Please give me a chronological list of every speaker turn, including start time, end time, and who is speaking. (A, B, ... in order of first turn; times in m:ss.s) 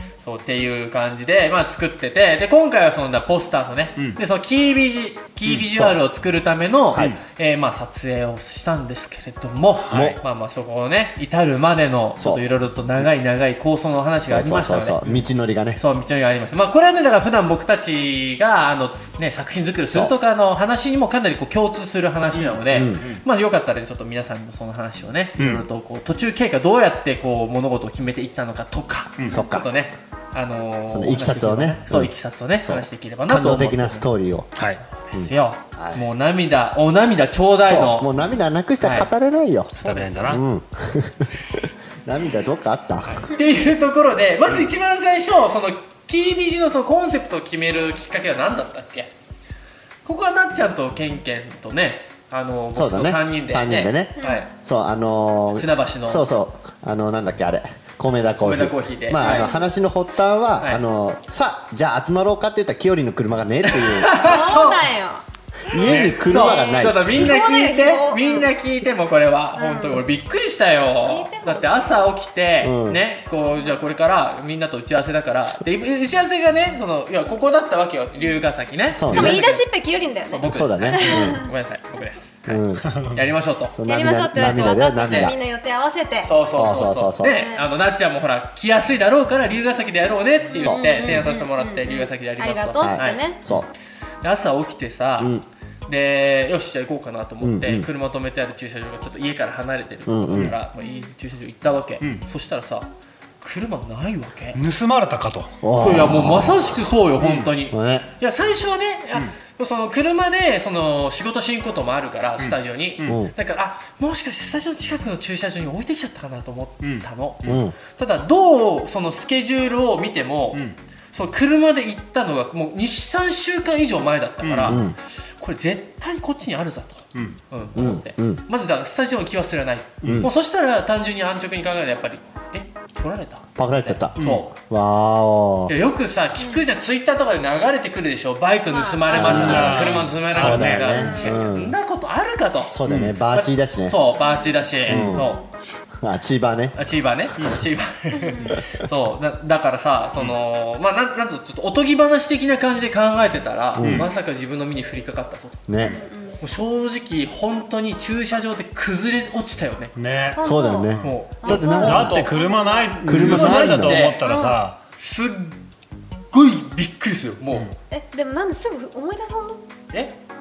0:00.2-0:15.0 A
0:05.5-0:06.0 B
0:09.8-0:10.2 C
0:14.2-0:15.8 B
0:15.8-0:34.1 A
0:19.8-0:20.1 B
0:22.3-0:23.2 C
0:22.7-0:23.0 B
0:25.4-0:25.6 C
0:29.3-0:29.7 B
0:30.9-0:32.1 B
0:32.6-0:34.5 B
0:34.6-0:38.1 A
0:35.1-0:36.1 B
0:37.6-0:39.7 B
0:38.8-0:39.1 A
0:39.7-0:40.4 A
0:39.8-0:40.4 C
0:40.2-0:43.3 B
0:43.1-0:49.1 A
0:50.1-0:54.5 A
0:52.7-1:04.2 B
0:54.2-0:54.5 D
0:55.6-0:56.2 A
0:58.4-0:59.5 A
0:59.2-0:59.6 D
1:03.7-1:04.9 A
1:04.2-1:05.2 D
1:05.7-1:07.2 B
1:05.8-1:06.2 C
1:05.9-1:19.6 A
1:06.3-1:08.5 D
1:09.6-1:10.0 D
1:11.0-1:11.9 D
1:12.6-1:13.0 B
1:19.0-1:19.4 B
1:19.1-1:21.4 D
1:20.3-1:23.8 A
1:20.5-1:21.5 B
1:22.5-1:23.0 B
1:23.8-1:25.4 B
1:23.9-1:26.3 D
1:25.1-1:25.4 A
1:26.2-1:33.5 A
1:26.5-1:27.3 B
1:27.2-1:27.7 D
1:30.6-1:31.2 B
1:30.6-1:33.4 D
1:32.8-1:33.7 B
1:34.2-1:35.4 A
1:35.2-1:35.4 B
1:35.9-1:42.9 A
1:37.4-1:37.9 B
1:40.1-1:40.6 B
1:40.8-1:41.1 D
1:43.4-1:44.6 A
1:44.6-1:45.6 C
1:45.6-1:46.9 B
1:45.8-2:00.6 A
1:47.2-1:47.5 C
1:47.7-1:48.1 B
1:52.4-1:53.2 C
1:53.1-1:53.3 B
1:56.8-1:57.6 C
1:57.4-1:57.8 B
2:01.1-2:04.9 A
2:04.4-2:04.8 C
2:04.6-2:05.0 B
2:05.4-2:14.5 A
2:07.8-2:08.4 B
2:10.0-2:10.3 C
2:10.0-2:10.3 B
2:13.6-2:15.8 B
2:14.2-2:14.4 C
2:15.7-2:22.8 A
2:18.7-2:20.1 D
2:19.1-2:21.8 B
2:19.1-2:21.1 C
2:20.8-2:21.4 D
2:22.7-2:24.0 B
2:22.9-2:23.2 C
2:23.3-2:25.4 A
2:24.2-2:24.6 D
2:24.9-2:25.2 C
2:24.9-2:25.3 B
2:26.0-2:26.8 B
2:26.7-2:35.7 A
2:28.2-2:28.6 D
2:33.8-2:34.1 B
2:33.8-2:34.1 C
2:35.7-2:36.0 B
2:35.8-2:36.4 D
2:36.4-2:39.9 A
2:40.0-2:44.8 C
2:40.4-2:43.0 D
2:40.4-2:42.2 B
2:41.0-2:42.4 A
2:43.1-2:44.1 B
2:43.1-2:44.4 A
2:44.2-2:44.6 D
2:45.0-2:45.6 A
2:46.3-2:47.7 A
2:47.9-2:49.6 D
2:49.9-2:50.2 A